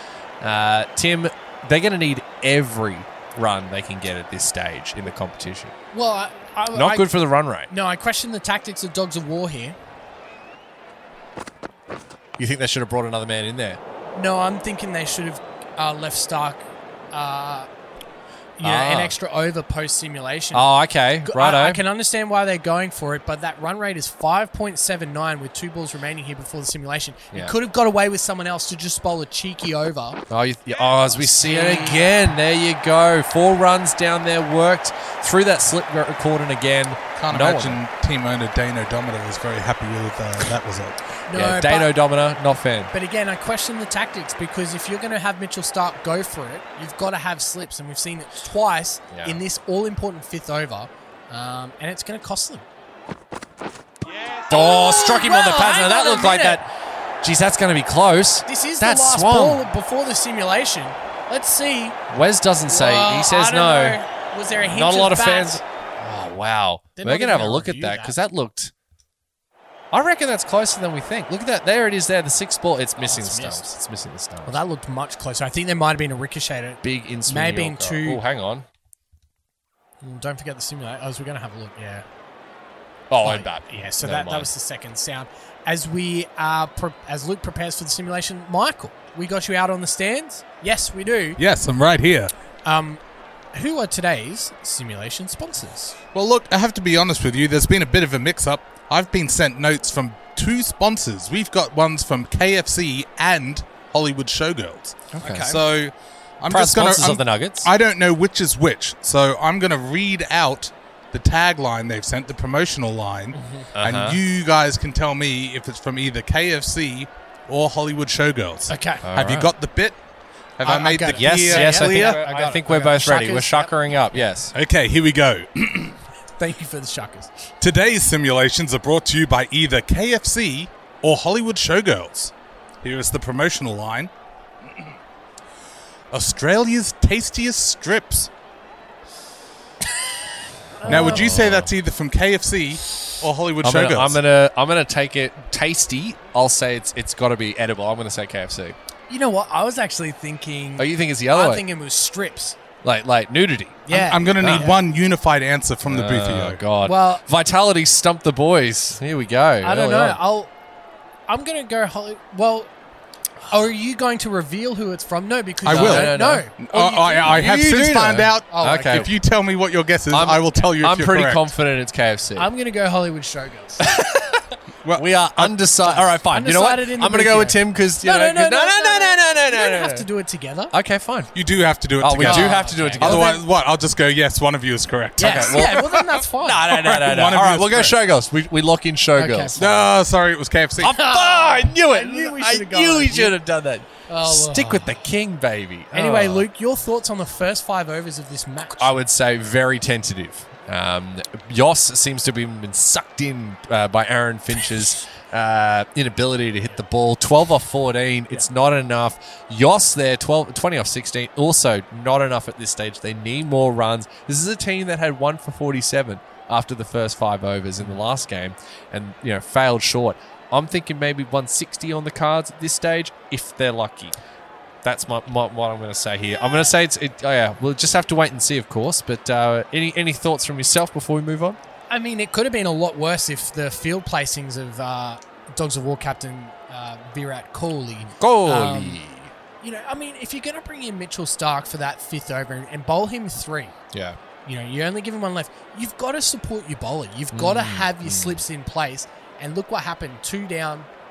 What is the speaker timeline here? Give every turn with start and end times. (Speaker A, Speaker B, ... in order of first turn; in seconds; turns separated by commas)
Speaker A: 0.4-5.7, Speaker B: 5.9-7.2, Speaker A: 6.7-7.7, Speaker B: 7.7-9.8, Speaker A: 12.4-13.8, Speaker B: 14.1-17.7, Speaker B: 18.6-20.7, Speaker A: 18.6-19.1, Speaker A: 20.5-21.8, Speaker B: 21.2-30.2, Speaker A: 30.3-37.8, Speaker B: 31.0-32.1, Speaker C: 37.1-41.1, Speaker B: 41.3-41.9, Speaker A: 41.3-42.9, Speaker B: 42.9-52.6, Speaker A: 49.1-49.4, Speaker B: 54.3-56.6, Speaker A: 54.5-56.6, Speaker A: 57.2-59.6, Speaker B: 58.5-62.0, Speaker A: 62.1-64.0, Speaker B: 62.7-65.6, Speaker A: 64.5-68.7, Speaker B: 67.0-68.1, Speaker A: 69.9-74.5, Speaker B: 73.0-73.7, Speaker B: 74.5-78.2, Speaker A: 76.8-78.7, Speaker B: 80.0-82.0, Speaker A: 83.1-84.5, Speaker B: 83.2-91.4, Speaker C: 91.4-92.3, Speaker B: 92.6-93.0, Speaker B: 93.5-96.0, Speaker C: 96.1-120.0, Speaker A: 105.1-105.5, Speaker B: 105.2-105.6, Speaker A: 106.5-107.7, Speaker B: 113.3-113.7, Speaker A: 113.8-114.2, Speaker B: 118.7-119.0, Speaker A: 119.0-119.5, Speaker C: 120.6-122.2, Speaker B: 120.6-123.7, Speaker A: 121.0-124.5, Speaker C: 124.5-126.0, Speaker B: 126.4-127.3, Speaker C: 127.6-132.3, Speaker C: 132.8-134.1, Speaker C: 136.1-138.3, Speaker B: 140.8-141.3, Speaker A: 140.8-141.7, Speaker C: 140.8-144.2, Speaker A: 143.6-148.8, Speaker B: 149.1-152.6, Speaker A: 150.8-151.6, Speaker A: 152.8-154.7, Speaker B: 153.9-154.8, Speaker C: 153.9-156.6, Speaker A: 155.8-160.2, Speaker B: 156.8-157.2, Speaker B: 159.6-160.5, Speaker B: 161.3-162.7, Speaker B: 163.4-167.4, Speaker A: 165.6-166.5, Speaker C: 165.6-171.5, Speaker A: 167.2-169.1, Speaker B: 168.5-169.0, Speaker A: 170.1-172.5, Speaker B: 172.4-173.8, Speaker A: 173.8-180.1, Speaker C: 174.8-175.6, Speaker B: 176.2-180.7, Speaker A: 180.7-181.3, Speaker C: 181.3-186.1, Speaker A: 182.0-183.3, Speaker B: 182.2-183.4, Speaker B: 185.2-186.6, Speaker A: 185.2-189.8, Speaker C: 186.6-188.0, Speaker B: 189.1-189.6, Speaker C: 189.6-191.0, Speaker A: 190.8-196.5, Speaker B: 190.8-193.4, Speaker B: 194.1-195.0, Speaker B: 195.9-198.9, Speaker A: 198.8-224.2, Speaker A: 224.8-231.6, Speaker B: 231.9-239.0, Speaker A: 238.2-239.3, Speaker B: 239.6-243.7, Speaker A: 243.9-244.2, Speaker B: 244.4-250.9, Speaker A: 247.3-248.4